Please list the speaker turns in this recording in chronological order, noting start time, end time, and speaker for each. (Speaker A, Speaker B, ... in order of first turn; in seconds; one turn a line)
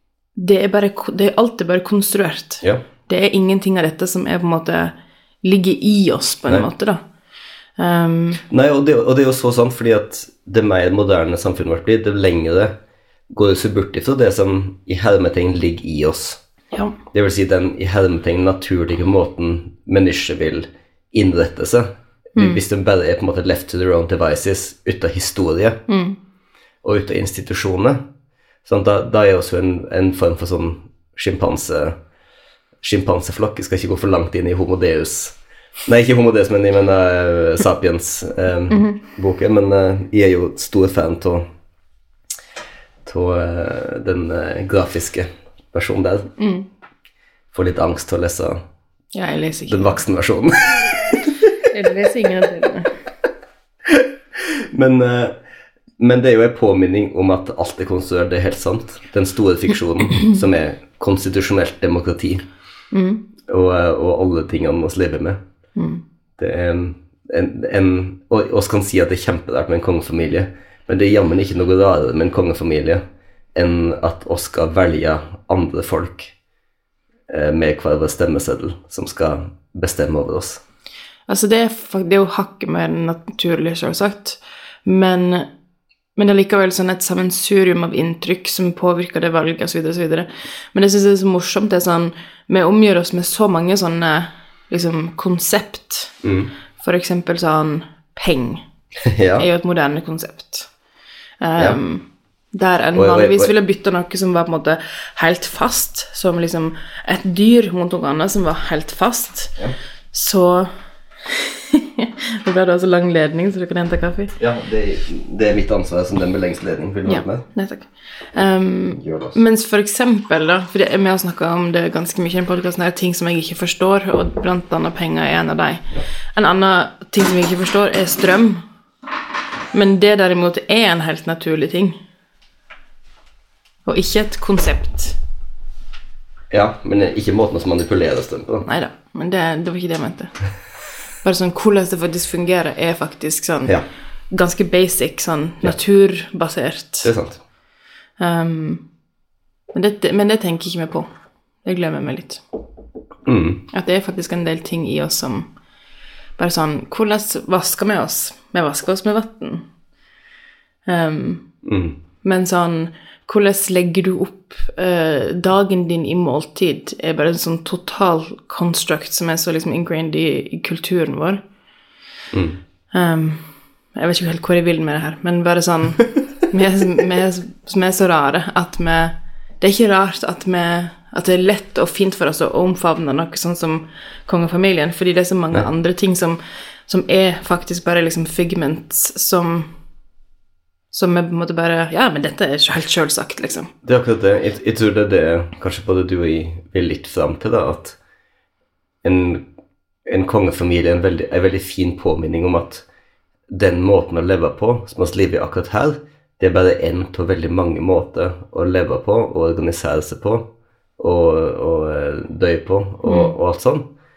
Speaker A: 0.3-7.0
Speaker A: 7.8-8.4
Speaker B: 8.5-12.7
Speaker B: 13.3-16.4
Speaker B: 17.1-25.8
Speaker A: 22.4-22.6
Speaker A: 25.9-26.2
Speaker B: 26.8-28.0
Speaker B: 28.6-32.0
Speaker B: 32.8-41.4
Speaker A: 38.7-39.0
Speaker B: 43.0-46.3
Speaker A: 46.4-46.7
Speaker B: 47.5-48.6
Speaker A: 49.1-50.0
Speaker B: 49.7-51.3
Speaker A: 51.6-52.9
Speaker B: 53.9-55.4
Speaker B: 56.0-62.4
Speaker A: 62.9-63.2
Speaker B: 63.5-65.4
Speaker A: 65.8-66.0
Speaker B: 66.4-73.0
Speaker B: 73.5-76.3
Speaker B: 77.3-80.6
Speaker A: 81.3-85.5
Speaker A: 86.2-96.1
Speaker B: 96.2-96.5
Speaker A: 96.8-98.6
Speaker B: 99.0-99.5
Speaker A: 99.4-100.7
Speaker A: 101.4-109.5
Speaker B: 102.9-103.5
Speaker A: 110.1-110.7
Speaker A: 111.3-114.3
Speaker B: 114.4-117.4
Speaker A: 117.0-128.6
Speaker B: 119.0-119.4
Speaker A: 129.7-132.0
Speaker A: 133.8-135.2
Speaker B: 136.5-138.7
Speaker A: 138.6-140.3
Speaker A: 141.2-143.8
Speaker A: 144.3-147.1
Speaker B: 147.0-147.4
Speaker A: 148.2-148.8
Speaker A: 149.7-151.1
Speaker A: 151.6-152.4
Speaker B: 153.2-153.6
Speaker A: 153.7-155.5
Speaker A: 156.4-159.6
Speaker A: 160.9-161.4
Speaker B: 161.6-161.9
Speaker A: 162.2-171.4
Speaker B: 172.3-172.6
Speaker A: 172.9-173.4
Speaker A: 173.9-189.7
Speaker A: 190.9-193.7
Speaker B: 193.8-198.0
Speaker B: 199.0-199.4
Speaker B: 200.1-202.8
Speaker B: 203.5-213.9
Speaker A: 213.0-213.3